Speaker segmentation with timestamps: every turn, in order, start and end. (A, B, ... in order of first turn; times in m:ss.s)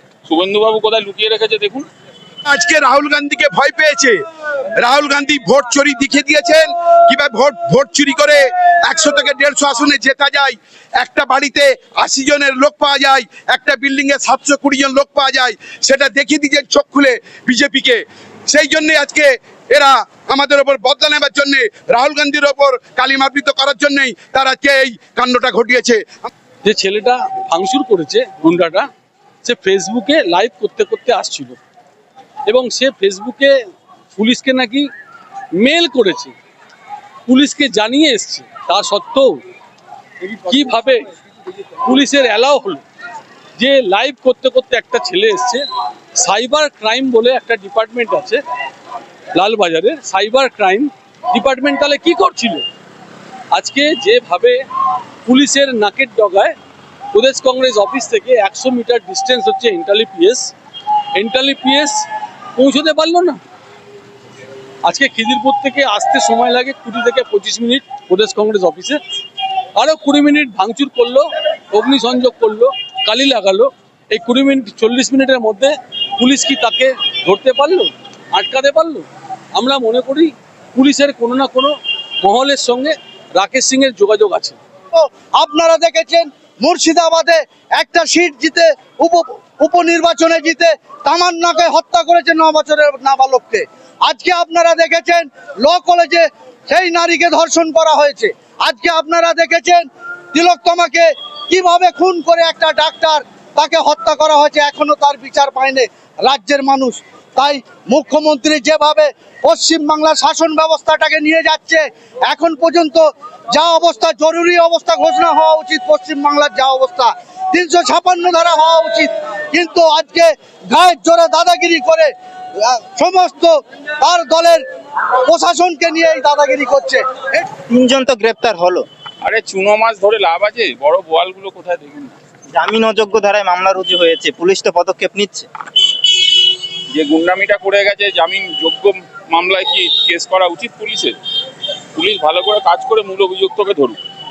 0:00.3-0:01.9 A
0:02.5-0:04.2 B
0:04.8-0:26.3 B
0:26.6-0:28.9 C
0:29.4-0:31.6 C
0:32.5-0:33.6 C
0:34.2-0:34.9 C
0:35.6-0:36.3 C
0:37.3-0:39.4 C
0:40.2-0:41.0 C
0:41.8-0:42.8 C
0:43.6-0:45.6 C
0:46.2-0:48.4 C
0:49.4-0:52.6 C
0:53.5-0:54.6 C
0:55.3-0:56.6 C
0:57.1-1:00.5 C
1:01.2-1:02.0 C
1:02.6-1:03.4 C
1:04.8-1:09.0 C
1:09.8-1:24.6 C
1:24.9-2:04.6 D
2:05.2-2:07.5 D
2:07.7-2:08.9 E
2:09.2-2:12.2 A
2:12.5-2:15.5 E
2:16.9-2:21.2 A
2:22.0-2:24.0 A